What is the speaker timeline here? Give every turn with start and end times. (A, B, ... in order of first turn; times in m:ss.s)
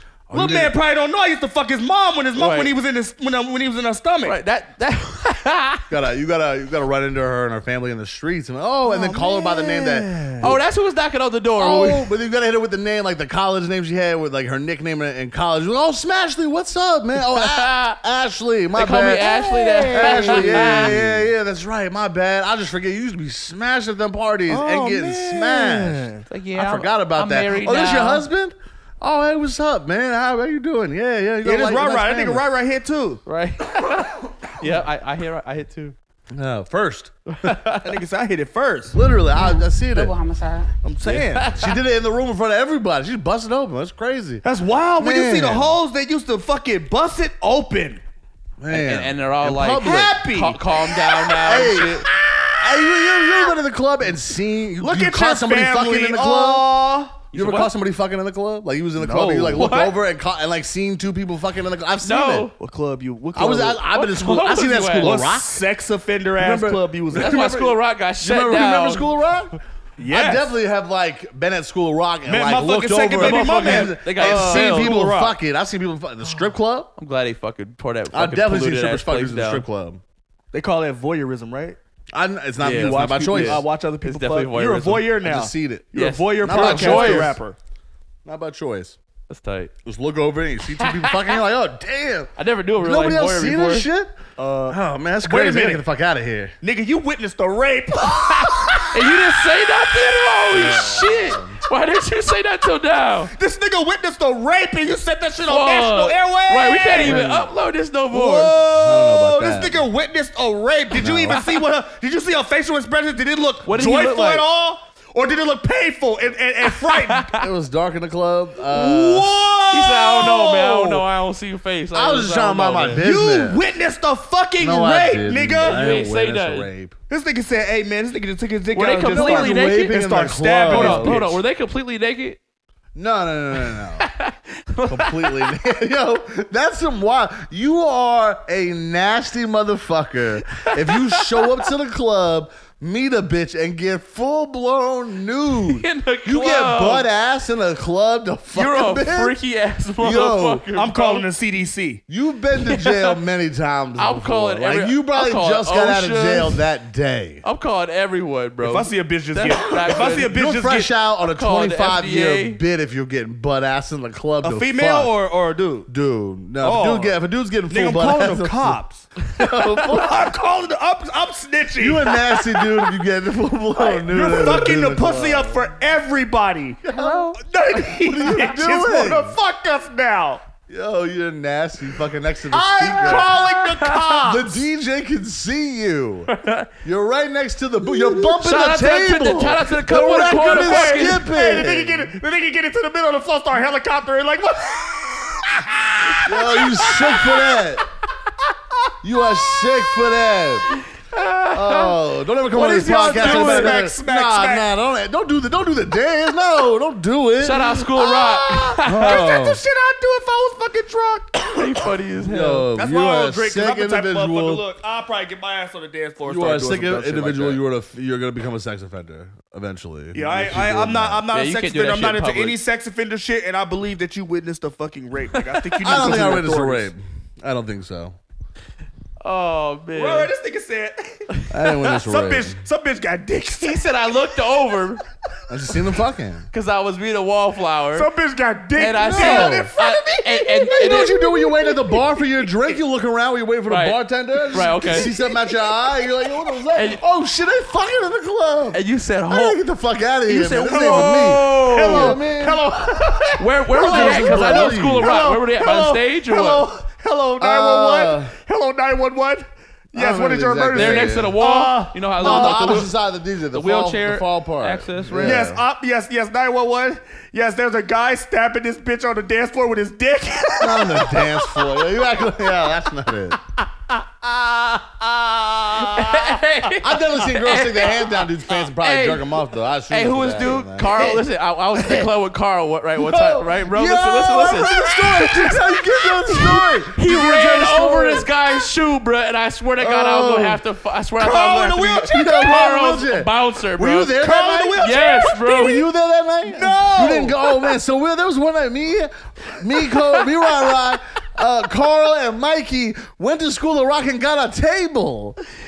0:00.3-0:00.8 A
0:00.3-0:04.4 B
0:02.4-0:02.7 C
0:04.2-0:05.9 C
0:05.9-0:10.6 A
0:08.8-0:10.5 B
0:10.4-0:12.1 C
0:11.6-0:32.4 A
0:17.2-0:18.0 C
0:18.8-0:21.0 C
0:19.3-0:21.1 B
0:24.5-0:26.2 B
0:26.3-0:28.3 C
0:31.4-0:33.2 B
0:33.3-0:36.0 C
0:36.3-0:37.5 A
0:37.3-0:37.9 C
0:37.8-0:39.0 B
0:38.9-0:40.2 A
0:40.0-0:41.5 B
0:41.0-0:41.7 C
0:41.5-0:44.4 A
0:44.4-0:48.0 B
0:45.0-0:45.8 A
0:48.6-0:50.2 A
0:48.7-0:52.1 C
0:49.8-0:53.4 B
0:51.4-0:52.0 A
0:52.6-0:56.7 A
0:54.8-0:57.2 B
0:57.3-0:57.7 C
0:57.3-1:02.5 A
0:59.0-0:59.8 B
0:59.6-0:59.9 C
1:02.0-1:02.5 C
1:02.6-1:03.8 B
1:03.4-1:05.6 A
1:03.9-1:05.2 C
1:05.0-1:07.5 B
1:06.4-1:09.6 A
1:07.1-1:09.1 C
1:10.0-1:10.5 B
1:10.1-1:16.9 A
1:12.3-1:15.4 B
1:13.2-1:14.9 C
1:17.0-1:19.6 C
1:18.1-1:20.0 A
1:20.5-1:21.8 B
1:22.1-1:23.6 A
1:22.6-1:25.1 C
1:22.7-1:27.6 B
1:25.2-1:27.4 A
1:25.9-1:27.3 C
1:28.2-1:29.0 A
1:29.3-1:29.7 C
1:29.8-1:36.5 A
1:30.8-1:31.4 C
1:32.4-1:33.9 C
1:34.4-1:35.8 B
1:36.6-1:38.9 B
1:38.2-1:43.3 C
1:40.5-1:41.6 A
1:43.4-1:47.3 B
1:45.5-1:48.5 C
1:47.0-1:47.5 A
1:48.1-1:57.3 B
1:48.6-1:49.8 A
1:51.0-1:51.4 A
1:53.7-1:54.4 C
1:56.8-1:57.3 C
1:57.4-1:59.3 A
1:58.7-2:01.0 B
1:59.7-2:03.0 C
2:01.9-2:03.6 A
2:03.0-2:05.8 B
2:04.6-2:07.0 A
2:05.6-2:06.7 C
2:07.1-2:11.4 B
2:08.7-2:10.0 C
2:09.1-2:11.2 A
2:10.7-2:12.4 C
2:13.0-2:14.1 A
2:13.7-2:15.5 C
2:14.9-2:29.4 A
2:20.6-2:21.5 C
2:25.7-2:27.1 C
2:28.5-2:31.3 C
2:30.0-2:30.7 A
2:30.8-2:32.0 B
2:32.1-2:37.4 A
2:32.6-2:33.2 C
2:34.0-2:36.6 C
2:37.4-2:40.3 C
2:38.6-2:40.9 B
2:39.9-2:45.1 A
2:41.3-2:42.6 C
2:44.4-2:45.9 B
2:45.9-2:48.8 A
2:46.6-2:49.1 B
2:49.4-2:50.3 A
2:49.9-2:52.9 B
2:51.8-2:55.7 A
2:53.8-3:00.4 B
2:56.8-2:59.4 A
3:00.7-3:03.3 A
3:02.5-3:04.6 B
3:03.0-3:04.0 C
3:04.2-3:06.3 A
3:06.3-3:06.7 C
3:06.8-3:12.1 A
3:08.2-3:11.3 C
3:10.2-3:17.3 B
3:16.2-3:17.8 A
3:19.0-3:20.8 A
3:21.1-3:21.9 C
3:21.5-3:27.8 A
3:22.5-3:23.9 C
3:22.7-3:24.7 B
3:27.4-3:29.2 C
3:27.6-3:31.8 B
3:28.8-3:29.6 A
3:31.5-3:32.7 C
3:32.2-3:34.6 A
3:32.8-3:37.6 B
3:36.2-3:41.2 A
3:40.1-3:46.9 B
3:41.3-3:42.6 C
3:45.8-3:48.2 A
3:49.2-3:50.3 C
3:50.0-3:51.3 B
3:51.5-3:52.6 A
3:51.8-3:54.2 B
3:53.6-3:55.0 C
3:55.5-3:56.5 A
3:56.5-3:58.1 C
3:57.9-4:01.9 B
3:58.8-4:01.2 C
3:59.0-3:59.7 A
4:00.6-4:15.2 A
4:03.7-4:04.0 C
4:04.5-4:05.1 C
4:04.8-4:05.3 B
4:06.8-4:07.0 C
4:08.7-4:09.6 C
4:10.3-4:12.2 C
4:10.7-4:22.9 B
4:13.4-4:16.7 C
4:17.4-4:18.3 A
4:19.9-4:21.4 A
4:20.8-4:22.9 C
4:22.2-4:25.6 A
4:23.5-4:25.4 C
4:25.2-4:31.5 B
4:30.6-4:33.4 A
4:33.9-4:36.4 B
4:35.8-4:38.1 C
4:36.8-4:41.2 A
4:38.7-4:39.3 C
4:39.9-4:54.2 C
4:43.0-4:48.3 A
4:49.8-4:50.6 A
4:51.2-4:52.5 B
4:52.1-5:05.4 A
4:54.2-4:55.8 B
4:54.8-4:55.8 C
4:56.5-4:57.5 B